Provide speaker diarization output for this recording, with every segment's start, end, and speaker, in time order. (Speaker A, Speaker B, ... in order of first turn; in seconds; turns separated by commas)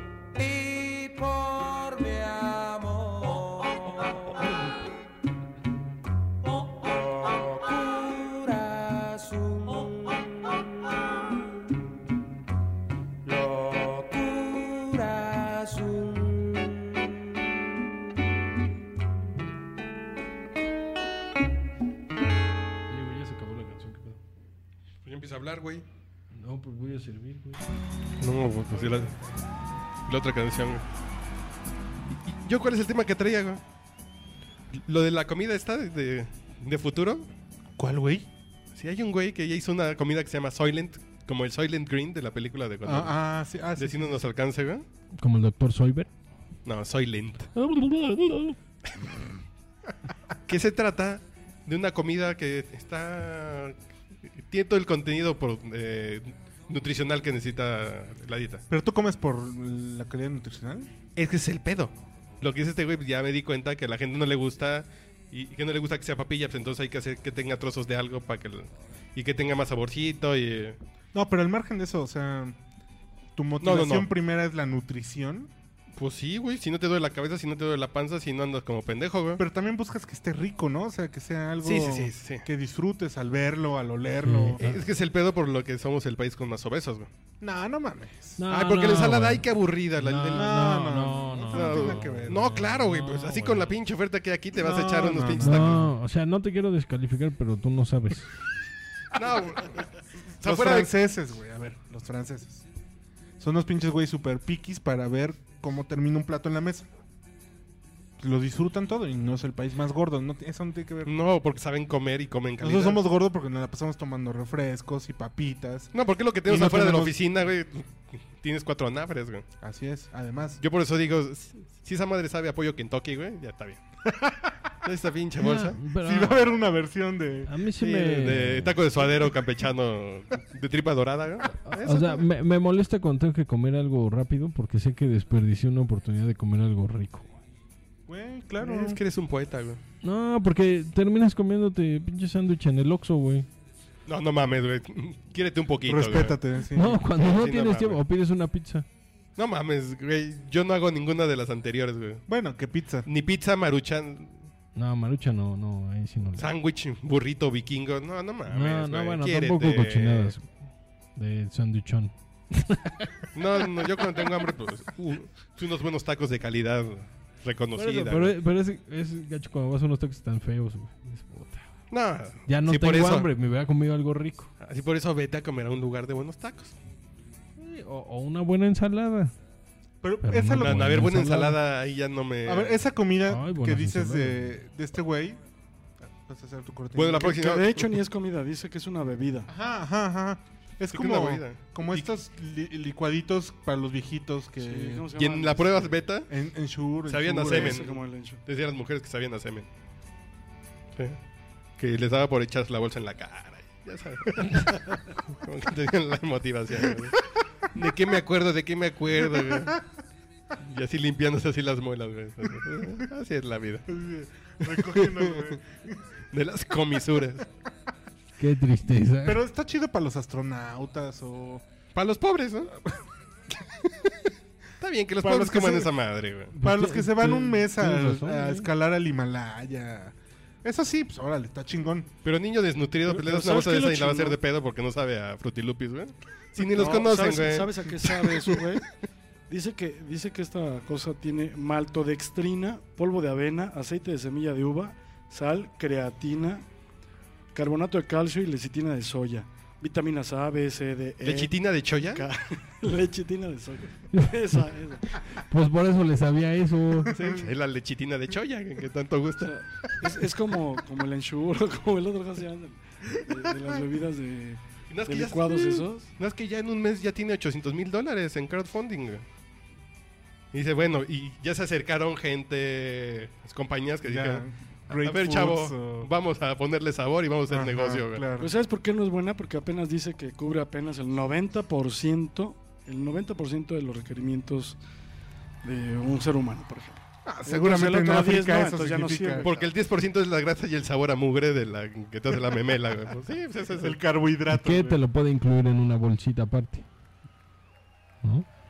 Speaker A: 0.3-4.7, Speaker A: 6.5-10.6, Speaker A: 13.2-17.4, Speaker B: 22.9-24.2, Speaker C: 25.1-25.9, Speaker B: 26.3-27.6, Speaker C: 28.2-29.1, Speaker C: 30.1-30.8, Speaker C: 32.1-33.6, Speaker C: 34.7-37.3, Speaker D: 37.8-38.3, Speaker C: 38.7-43.2, Speaker D: 42.9-44.2, Speaker C: 43.8-44.9, Speaker B: 45.2-46.1, Speaker C: 46.7-47.5, Speaker B: 47.5-48.6, Speaker C: 50.5-53.8, Speaker C: 54.4-58.6, Speaker D: 58.7-60.9, Speaker C: 61.2-70.8, Speaker D: 71.1-72.6, Speaker D: 73.4-75.5, Speaker C: 73.6-74.1, Speaker C: 76.0-79.4, Speaker D: 79.4-84.7, Speaker C: 81.6-82.5, Speaker B: 84.2-84.8, Speaker C: 84.6-87.1, Speaker D: 87.4-88.4, Speaker B: 88.4-89.5, Speaker C: 88.5-90.8, Speaker B: 90.0-93.7, Speaker D: 90.3-92.5, Speaker C: 91.5-95.9, Speaker D: 94.6-95.9, Speaker B: 95.4-98.3, Speaker C: 99.1-100.9, Speaker D: 100.4-102.6, Speaker D: 103.4-106.9, Speaker D: 108.2-111.1, Speaker C: 111.0-113.1, Speaker D: 112.6-115.9, Speaker C: 115.9-119.5, Speaker D: 116.5-117.2, Speaker D: 119.6-120.6, Speaker C: 120.6-123.8, Speaker D: 124.0-124.6, Speaker C: 124.8-125.8, Speaker B: 125.4-126.5, Speaker D: 126.0-127.6, Speaker B: 127.5-128.8, Speaker C: 127.8-132.2, Speaker B: 131.7-137.3, Speaker D: 138.1-139.0, Speaker C: 138.6-139.8, Speaker B: 140.0-143.5, Speaker C: 144.1-146.4, Speaker D: 145.8-147.0, Speaker B: 146.7-148.9, Speaker C: 147.1-148.0, Speaker C: 149.4-152.3, Speaker D: 152.3-153.1, Speaker C: 153.1-154.4, Speaker B: 154.8-156.5, Speaker C: 156.4-160.4, Speaker B: 158.5-160.6, Speaker B: 161.2-163.3, Speaker C: 163.3-168.4, Speaker B: 167.8-171.7, Speaker C: 171.9-173.3, Speaker B: 172.5-174.5, Speaker C: 174.6-176.8, Speaker B: 177.6-179.3, Speaker D: 180.0-181.1, Speaker B: 180.2-181.6, Speaker C: 180.6-182.8, Speaker D: 182.4-185.4, Speaker B: 183.3-184.6, Speaker D: 186.0-187.5, Speaker C: 186.9-188.0, Speaker E: 187.3-189.5, Speaker D: 189.5-195.1, Speaker C: 190.9-192.1, Speaker E: 194.6-196.0, Speaker C: 195.2-196.3, Speaker D: 196.3-197.8, Speaker C: 197.1-199.7, Speaker E: 197.4-198.4, Speaker C: 201.8-209.8, Speaker D: 209.3-209.7, Speaker C: 210.6-213.9, Speaker D: 213.9-216.0, Speaker C: 214.6-215.6, Speaker C: 216.3-217.5, Speaker B: 218.4-219.4, Speaker D: 219.2-221.6, Speaker C: 221.9-222.8, Speaker C: 223.8-224.2, Speaker C: 224.8-226.6, Speaker D: 225.2-225.9, Speaker B: 226.6-228.7, Speaker D: 226.6-232.1, Speaker C: 232.2-238.6, Speaker E: 233.1-234.4, Speaker E: 236.7-238.9, Speaker E: 239.5-246.7, Speaker E: 247.5-255.2, Speaker C: 251.2-252.2, Speaker B: 255.4-257.1, Speaker C: 257.1-259.5, Speaker D: 257.2-257.4, Speaker E: 259.4-266.1, Speaker C: 264.9-269.2, Speaker C: 270.5-278.3, Speaker D: 274.0-276.1, Speaker D: 277.5-278.5, Speaker E: 278.4-284.8, Speaker E: 285.6-289.6, Speaker D: 287.3-289.5, Speaker C: 289.4-294.0, Speaker D: 293.7-295.0, Speaker B: 294.5-296.9